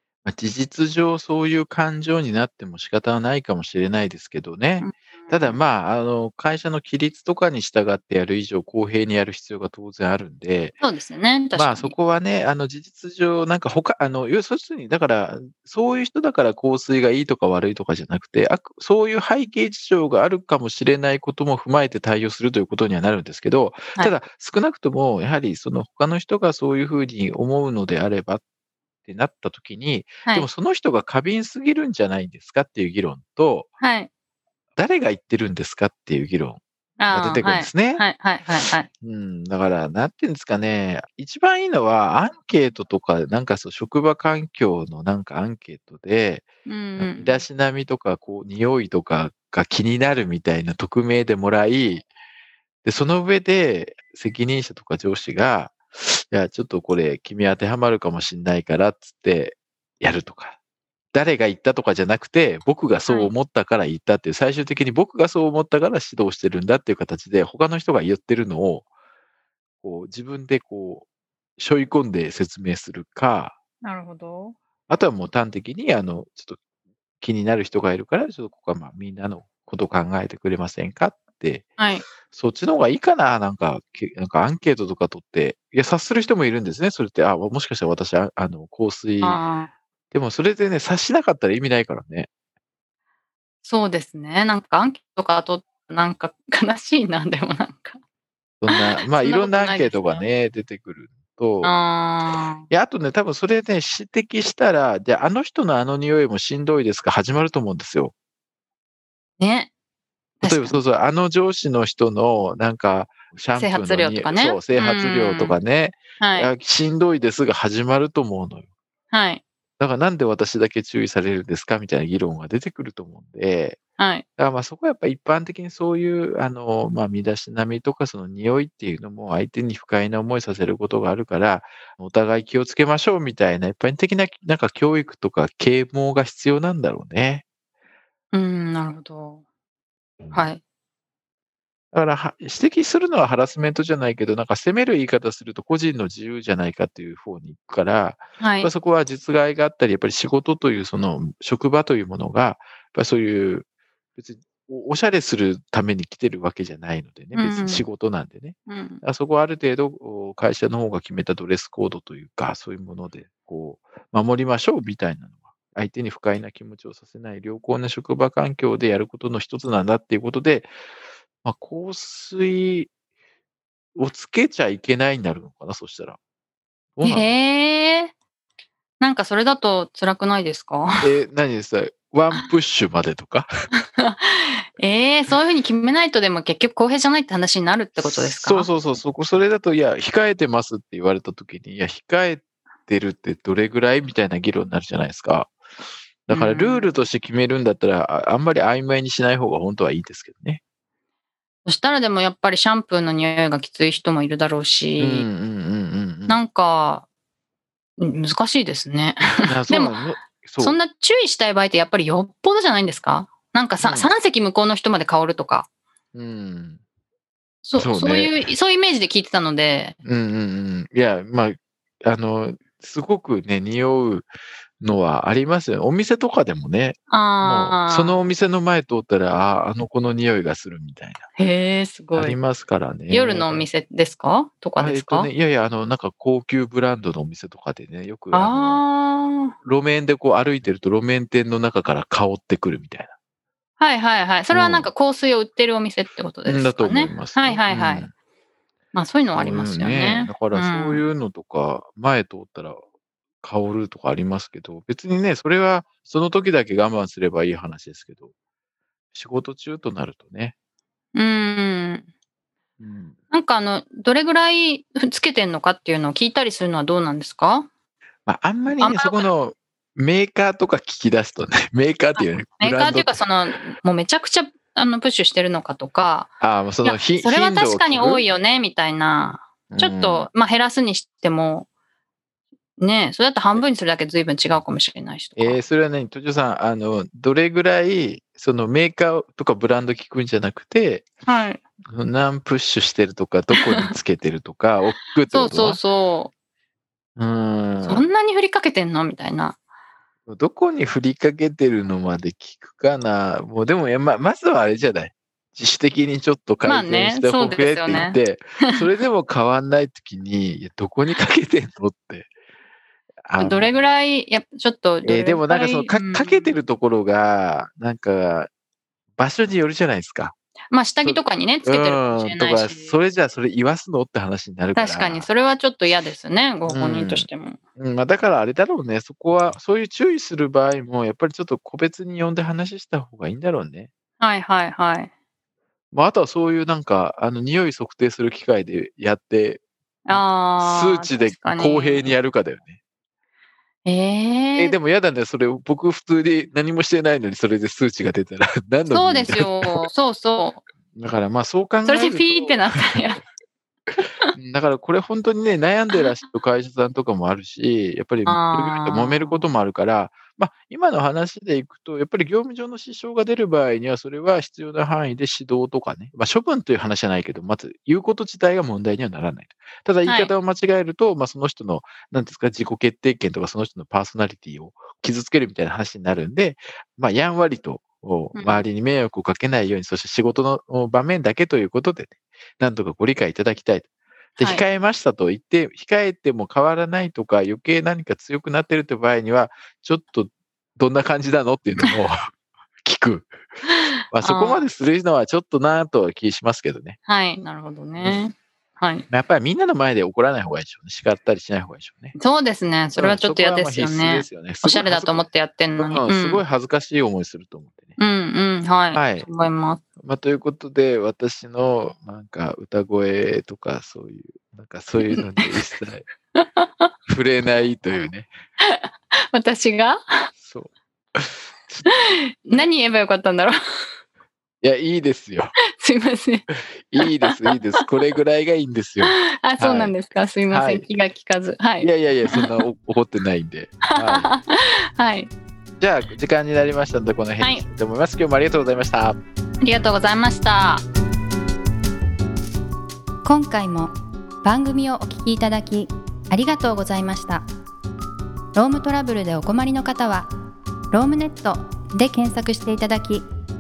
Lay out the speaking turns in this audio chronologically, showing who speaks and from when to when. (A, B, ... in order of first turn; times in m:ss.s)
0:00.2-0:10.8 A
0:04.8-0:05.6 B
0:10.8-0:12.0 B
0:11.6-0:28.4 A
0:29.0-0:33.7 A
0:33.8-0:34.1 B
0:34.8-0:38.0 A
0:37.0-0:38.9 B
0:39.0-0:52.1 A
0:46.7-0:47.4 B
0:52.8-1:00.6 A
1:01.1-1:08.9 A
1:09.8-1:11.1 A
1:11.6-1:13.6 A
1:13.9-1:14.5 B
1:14.9-1:16.6 A
1:17.2-1:21.7 A
1:22.3-1:29.4 A
1:29.2-1:29.7 B
1:30.1-1:32.3 A
1:33.6-1:38.0 B
1:38.6-1:41.7 A
1:38.7-1:40.2 B
1:41.6-1:42.7 B
1:42.7-1:48.1 A
1:49.4-1:49.7 B
1:50.4-1:50.8 B
1:50.4-1:58.7 A
1:53.6-1:55.6 B
1:53.8-1:55.0 C
1:59.1-1:59.4 B
1:59.8-2:03.8 A
2:04.0-2:04.2 B
2:04.4-2:17.4 A
2:18.3-2:19.4 B
2:20.2-2:20.5 A
2:20.3-2:20.6 B
2:21.9-2:33.6 A
2:28.4-2:28.7 B
2:34.2-2:50.7 A
2:37.3-2:37.8 B
2:38.7-2:39.0 B
2:51.4-2:52.9 A
2:54.0-2:56.2 A
2:57.0-2:57.3 A
2:57.0-2:58.1 B
2:59.0-3:01.1 B
3:01.0-3:03.5 A
3:03.9-3:08.7 B
3:08.0-3:15.5 A
3:16.3-3:20.6 A
3:16.3-3:16.9 B
3:21.7-3:25.3 B
3:25.0-3:26.4 A
3:26.3-3:27.0 B
3:28.0-3:30.0 B
3:29.4-3:30.8 A
3:30.6-3:35.7 B
3:33.8-3:34.1 A
3:36.1-3:36.8 A
3:37.6-3:40.0 B
3:37.8-3:38.4 A
3:40.0-3:44.3 A
3:44.8-3:51.2 A
3:47.1-3:48.2 B
3:51.4-3:52.4 B
3:52.2-3:53.7 A
3:53.1-3:55.3 B
3:54.8-3:58.8 A
3:58.3-3:59.5 B
3:59.6-4:03.1 A
4:03.8-4:08.0 B
4:04.5-4:04.9 A
4:06.4-4:08.1 A
4:08.9-4:11.0 B
4:09.3-4:12.8 A
4:13.4-4:18.3 A
4:19.1-4:20.5 A
4:21.2-4:22.0 B
4:22.8-4:23.2 A
4:23.3-4:27.7 B
4:28.3-4:33.2 A
4:28.8-4:29.3 B
4:32.2-4:36.3 B
4:36.4-4:38.2 A
4:36.8-4:41.7 B
4:39.7-4:40.3 A
4:42.8-4:45.6 B
4:45.4-4:51.1 A
4:51.3-4:51.6 B
4:51.9-4:55.8 A
4:53.6-4:53.9 B
4:55.3-4:56.3 B
4:57.2-4:58.0 A
4:57.8-4:59.6 B
5:00.3-5:12.3 A
5:06.6-5:08.8 B
5:13.2-5:13.9 A
5:13.4-5:16.6 B
5:15.0-5:18.5 A
5:19.2-5:20.4 A
5:20.7-5:23.0 B
5:21.0-5:25.3 A
5:24.8-5:27.6 B
5:26.7-5:33.9 A
5:34.2-5:35.1 B
5:35.9-5:42.8 A
5:40.1-5:42.1 B
5:43.9-5:44.8 B
5:44.6-5:49.9 A
5:48.9-5:50.6 B
5:50.9-5:52.8 A
5:51.9-5:53.2 B
5:54.3-6:32.3 A
5:58.3-5:59.4 B
6:18.4-6:18.6 B
6:24.4-6:24.6 B
6:32.8-6:33.4 A
6:33.7-6:34.7 B
6:34.1-6:37.0 A
6:37.1-6:39.1 B
6:39.1-6:42.2 A
6:42.2-6:46.4 B
6:43.0-6:45.3 A
6:45.8-6:48.0 A
6:48.0-6:49.8 B
6:48.9-6:49.3 A
6:50.0-6:56.0 A
6:55.0-6:55.5 B
6:56.4-6:56.9 B
6:57.1-6:58.3 A
6:58.6-7:00.3 B
7:00.4-7:02.0 A
7:01.9-7:03.6 B
7:04.6-7:05.6 A
7:05.8-7:06.4 B
7:06.9-7:10.0 A
7:07.0-7:07.4 B
7:09.0-7:12.6 B
7:10.5-7:10.9 A
7:11.8-7:14.3 A
7:14.0-7:15.3 B
7:15.8-7:19.2 A
7:19.6-7:20.8 B
7:23.2-7:23.9 C
7:24.4-7:27.4 C
7:28.6-7:30.3 C
7:30.9-7:33.2 C